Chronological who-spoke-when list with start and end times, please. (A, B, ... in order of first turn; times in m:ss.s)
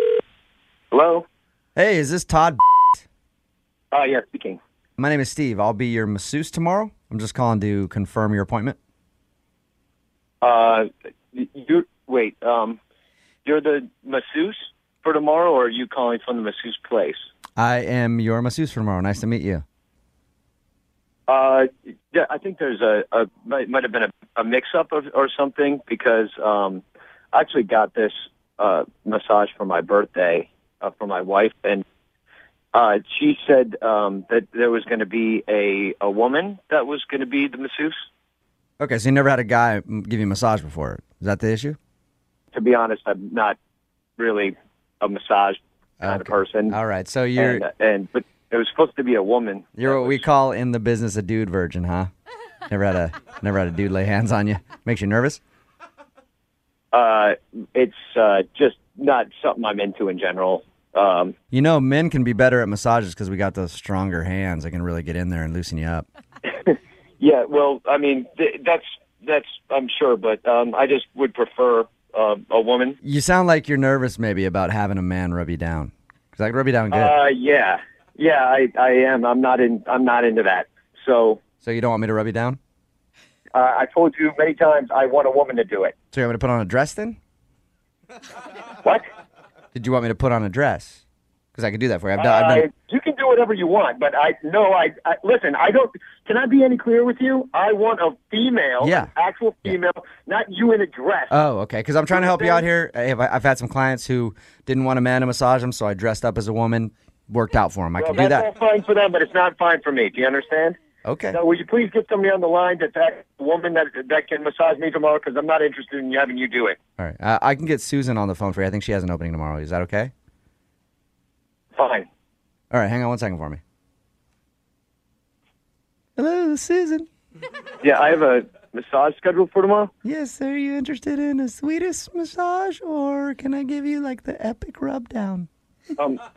0:00.9-0:01.2 A
0:01.8-0:03.0 B
0:03.9-0:04.6 A
0:05.0-0:08.8 B
0:10.4-0:12.8 A
0:13.4-0:17.2 A
0:17.6-0:19.6 B
0:21.3-0:31.8 A
0:32.7-0:38.0 A
0:38.8-0:41.8 B
0:42.5-0:43.6 A
0:44.2-0:46.8 A
0:46.0-0:47.6 B
0:47.4-0:50.2 A
0:49.8-0:52.1 B
0:52.7-0:55.4 B
0:56.9-1:01.3 A
1:01.5-1:06.0 B
1:06.5-1:13.0 A
1:13.0-1:17.1 B
1:16.9-1:21.4 A
1:21.6-1:22.6 B
1:23.5-1:25.9 A
1:26.1-1:27.2 B
1:29.7-1:31.0 B
1:31.5-1:32.6 B
1:32.2-1:41.3 A
1:38.8-1:39.1 B
1:41.3-1:48.4 B
1:42.1-1:42.6 A
1:48.0-1:50.8 A
1:51.0-1:51.4 B
1:51.3-1:56.8 A
1:57.0-2:00.1 B
2:01.8-2:02.1 A
2:02.7-2:03.6 B
2:06.2-2:07.1 B
2:07.8-2:09.9 A
2:10.0-2:15.5 B
2:16.0-2:16.2 A